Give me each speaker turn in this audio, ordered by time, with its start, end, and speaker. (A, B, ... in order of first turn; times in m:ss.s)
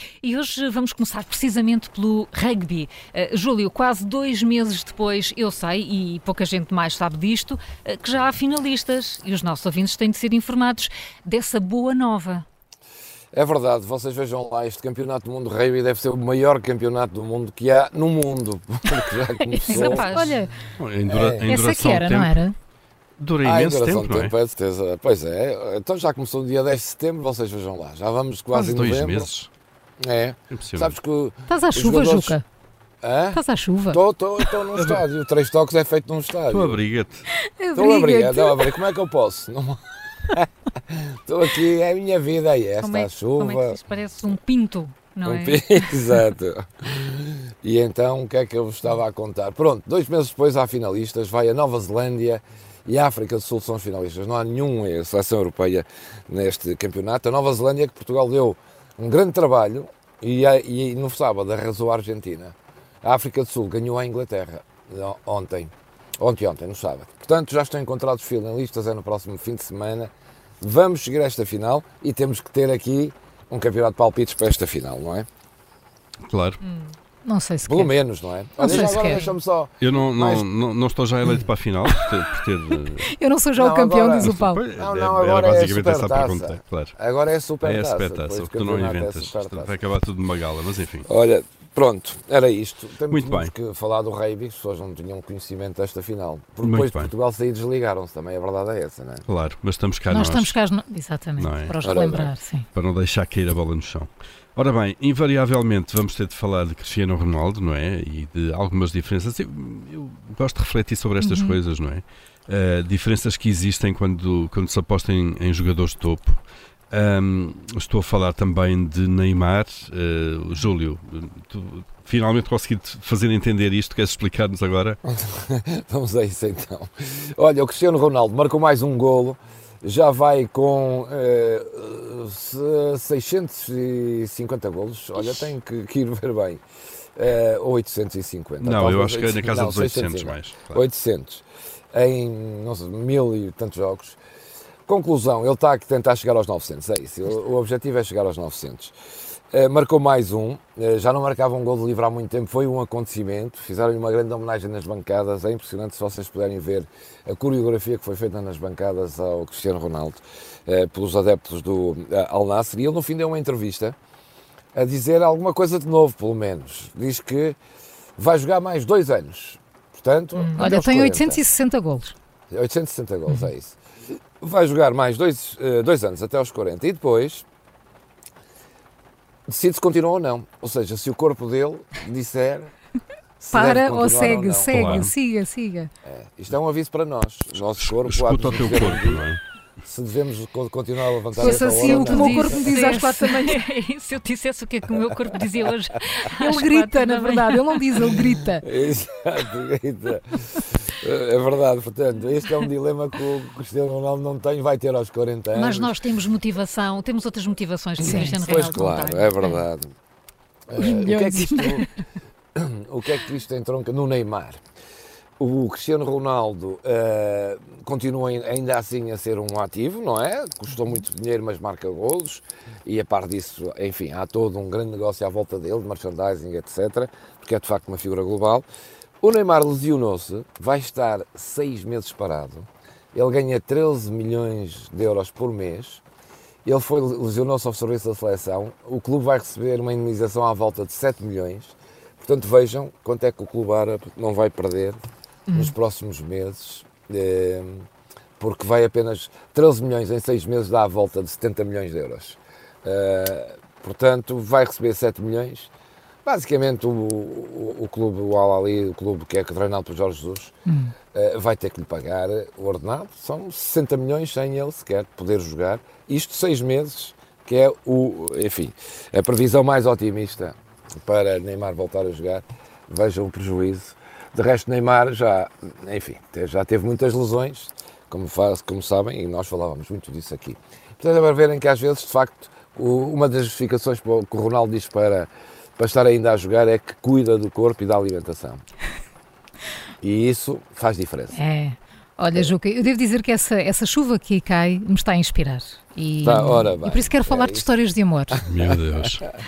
0:00.2-0:12.4 A
0:13.3-0:20.1 B
0:19.5-0:20.5 C
0:19.7-0:20.4 A
0:20.8-0:22.4 D
0:21.1-0:21.5 B
0:21.5-0:22.6 C
0:23.2-0:24.3 D
0:23.4-0:29.3 B
0:28.5-0:29.5 D
0:30.0-0:32.4 B
0:30.5-0:30.9 D
0:31.5-0:32.4 C
0:33.0-0:36.8 B
0:33.3-0:34.0 C
0:34.8-0:35.0 D
0:36.5-0:37.2 D
0:37.3-0:38.6 C
0:37.8-0:43.8 B
0:42.8-0:46.2 A
0:45.2-1:15.3 B
1:16.3-1:16.6 D
1:16.6-1:17.0 A
1:17.2-1:17.9 C
1:17.7-1:20.5 B
1:18.6-1:19.3 C
1:18.7-1:19.0 D
1:19.8-1:23.1 D
1:23.1-1:24.6 C
1:23.6-1:29.8 B
1:24.2-1:26.9 D
1:27.6-1:31.1 D
1:31.1-1:39.3 B
1:33.1-1:33.5 D
1:36.6-1:37.1 D
1:39.3-1:40.5 D
1:40.1-1:42.7 C
1:41.4-1:41.8 D
1:41.8-1:42.3 B
1:42.8-2:05.0 D
1:51.2-1:51.6 C
2:05.1-2:16.6 B
2:17.2-2:24.2 B
2:18.6-2:20.8 D
2:24.9-2:28.9 B
2:29.5-2:44.0 B
2:44.7-2:47.6 B
2:48.2-2:51.4 B
2:50.4-2:50.7 A
2:50.6-2:52.1 C
2:52.5-2:53.8 B
2:54.4-2:57.4 B
2:59.5-3:02.7 B
3:03.4-3:04.9 B
3:03.5-3:05.9 C
3:04.7-3:05.1 D
3:06.0-3:09.3 B
3:07.8-3:09.4 D
3:09.8-3:13.0 B
3:11.4-3:13.6 C
3:11.7-3:18.1 A
3:16.4-3:18.6 C
3:18.1-3:26.0 B
3:25.5-3:29.6 A
3:28.0-3:29.9 B
3:28.0-3:28.7 C
3:30.7-3:31.9 B
3:30.8-3:31.8 C
3:32.6-3:34.6 B
3:35.4-3:48.7 B
3:49.2-3:56.0 B
3:56.6-4:05.0 B
4:05.5-4:05.7 A
4:05.5-4:07.9 B
4:08.4-4:15.7 B
4:16.2-4:20.5 B
4:20.7-4:20.9 C
4:21.1-4:48.6 B
4:50.0-4:51.4 B
4:51.3-4:58.4 C
4:56.2-4:57.7 B
4:58.5-4:59.3 D